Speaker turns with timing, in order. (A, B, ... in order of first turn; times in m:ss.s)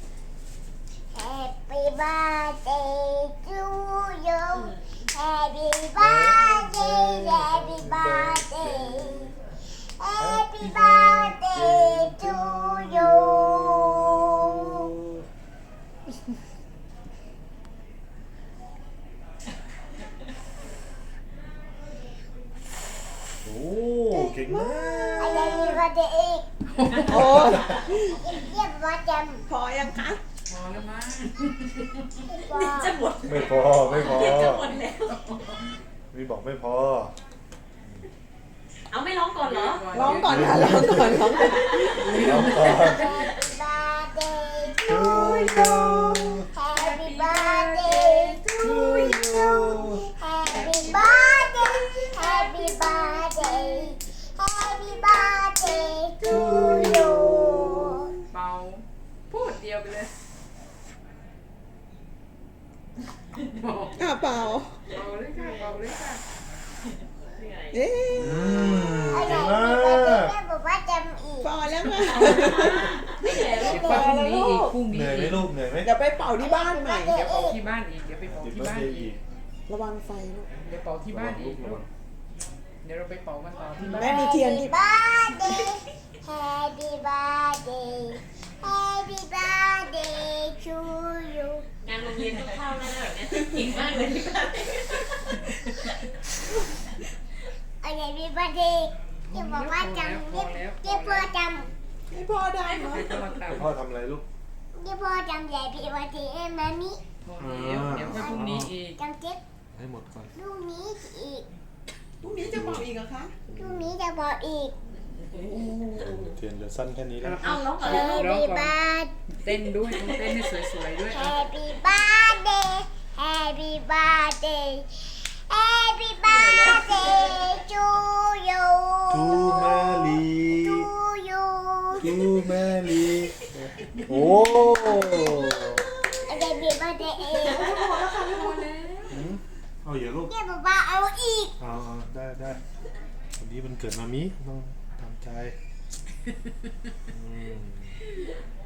0:01.1-0:14.8 A
0:04.5-0:05.0 B
0:06.0-0:09.3 C
0:10.2-0:15.2 C
0:23.4-0:25.7 C
0:24.1-0:25.8 D
0:25.2-0:26.5 A
0:26.7-0:27.6 E
0:27.0-0:28.2 D
0:28.1-0:29.5 A
0:29.5-0:30.2 D
0:30.5-0:32.0 E
0:32.3-0:33.0 A
0:32.5-0:35.4 B
0:33.2-0:34.7 C
0:35.1-0:35.6 E
0:36.1-0:37.1 C
0:38.9-0:39.9 B
0:39.4-0:40.9 E
0:39.9-0:42.4 D
0:40.2-0:41.2 C
0:41.0-0:42.6 B
0:42.0-0:43.1 E
0:42.1-0:43.1 C
0:42.4-0:48.4 A
0:44.9-0:46.5 C
0:45.2-0:45.7 E
0:46.7-0:53.9 E
0:48.6-0:50.1 C
0:50.2-0:58.1 A
0:56.2-0:57.9 C
0:58.3-1:00.2 E
1:03.4-1:04.0 E
1:04.0-1:04.8 D
1:04.9-1:06.2 E
1:05.4-1:05.8 B
1:07.4-1:07.8 B
1:07.7-1:08.6 D
1:08.1-1:10.4 C
1:09.1-1:11.5 A
1:11.4-1:14.8 D
1:12.2-1:14.1 B
1:13.2-1:14.1 A
1:13.6-1:15.5 E
1:14.9-1:15.9 C
1:15.8-1:17.2 D
1:16.4-1:17.6 A
1:17.1-1:19.1 E
1:18.2-1:19.2 C
1:19.7-1:20.5 D
1:20.6-1:21.8 E
1:21.1-1:21.9 C
1:22.8-1:24.3 E
1:23.8-1:24.8 D
1:24.0-1:31.6 A
1:31.8-1:36.0 B
1:37.8-1:41.7 A
1:39.3-1:41.3 E
1:42.1-1:43.1 D
1:42.9-1:43.3 B
1:42.9-1:43.7 E
1:43.5-1:44.2 C
1:44.8-1:47.0 A
1:47.2-1:49.0 E
1:47.4-1:48.7 C
1:48.0-1:49.4 A
1:49.7-1:50.3 C
1:50.4-1:51.4 A
1:52.2-1:53.4 D
1:52.4-1:52.9 C
1:53.5-1:53.9 C
1:53.5-1:54.7 A
1:55.3-1:56.3 D
1:56.0-1:57.6 C
1:57.2-1:58.8 E
1:57.4-1:58.2 B
1:57.8-1:59.1 A
1:59.3-2:01.4 E
1:59.9-2:00.5 B
2:01.1-2:12.1 A
2:06.2-2:07.6 B
2:09.1-2:10.9 C
2:12.0-2:13.4 C
2:14.0-2:15.8 C
2:16.3-2:17.9 A
2:17.4-2:18.7 D
2:18.3-2:19.2 E
2:19.1-2:20.3 C
2:20.3-2:21.5 A
2:21.6-2:22.6 C
2:23.4-2:25.6 C
2:27.1-2:28.0 C